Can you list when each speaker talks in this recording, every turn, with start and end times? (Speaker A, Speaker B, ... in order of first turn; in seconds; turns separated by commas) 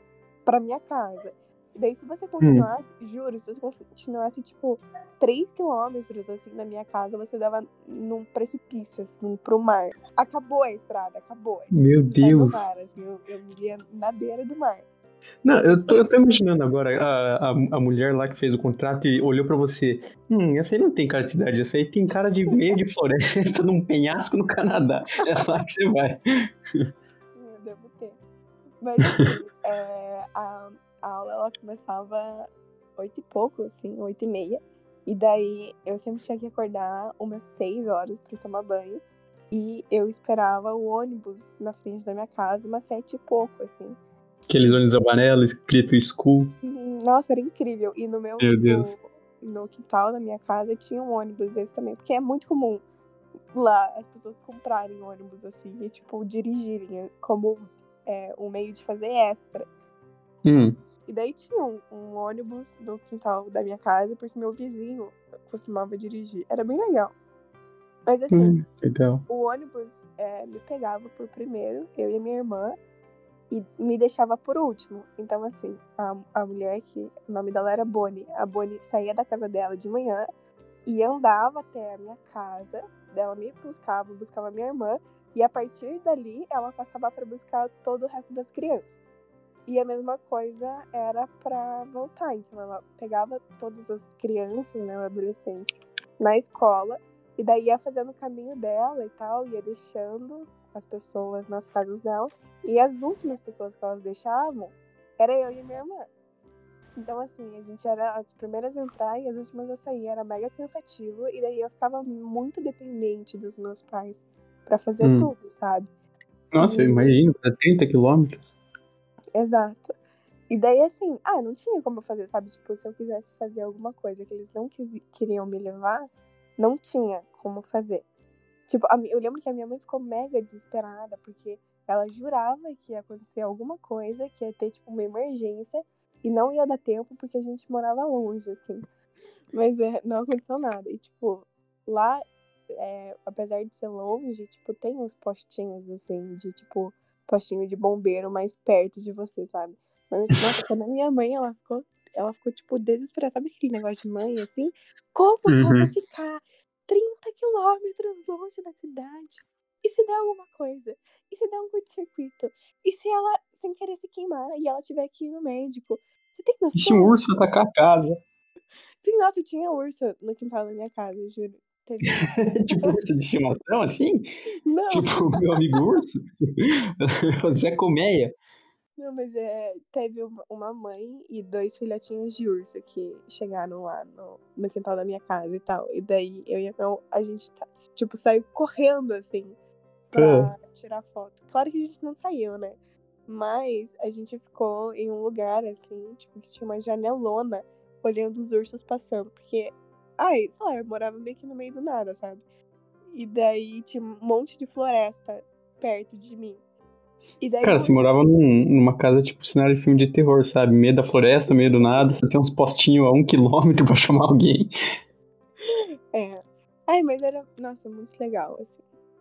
Speaker A: 0.4-14.8, Speaker B: 2.4-2.7, Speaker B: 11.7-12.6, Speaker B: 15.4-26.2, Speaker A: 15.7-16.1, Speaker A: 27.3-28.2, Speaker A: 28.8-44.0, Speaker B: 44.5-46.5, Speaker A: 46.4-52.8, Speaker B: 48.4-48.9, Speaker A: 53.5-59.7, Speaker B: 60.4-60.8, Speaker A: 61.1-67.1, Speaker A: 68.0-68.6, Speaker B: 68.3-69.2, Speaker A: 69.3-72.8, Speaker A: 73.5-80.2, Speaker A: 80.8-89.0, Speaker A: 89.7-106.1, Speaker A: 107.0-115.9, Speaker B: 115.0-115.3, Speaker B: 116.5-118.5, Speaker A: 116.6-117.2, Speaker A: 119.3-120.0, Speaker A: 120.5-128.0, Speaker A: 128.7-138.8, Speaker A: 139.5-167.1, Speaker B: 155.5-155.9, Speaker B: 166.7-168.2, Speaker A: 169.0-172.9, Speaker B: 172.1-174.3, Speaker A: 174.7-175.8, Speaker B: 174.9-178.3, Speaker A: 179.0-189.5, Speaker A: 190.1-202.4, Speaker B: 190.2-190.5, Speaker A: 203.1-206.6, Speaker A: 207.4-208.3, Speaker B: 207.6-214.7, Speaker A: 211.4-212.1, Speaker A: 215.7-218.8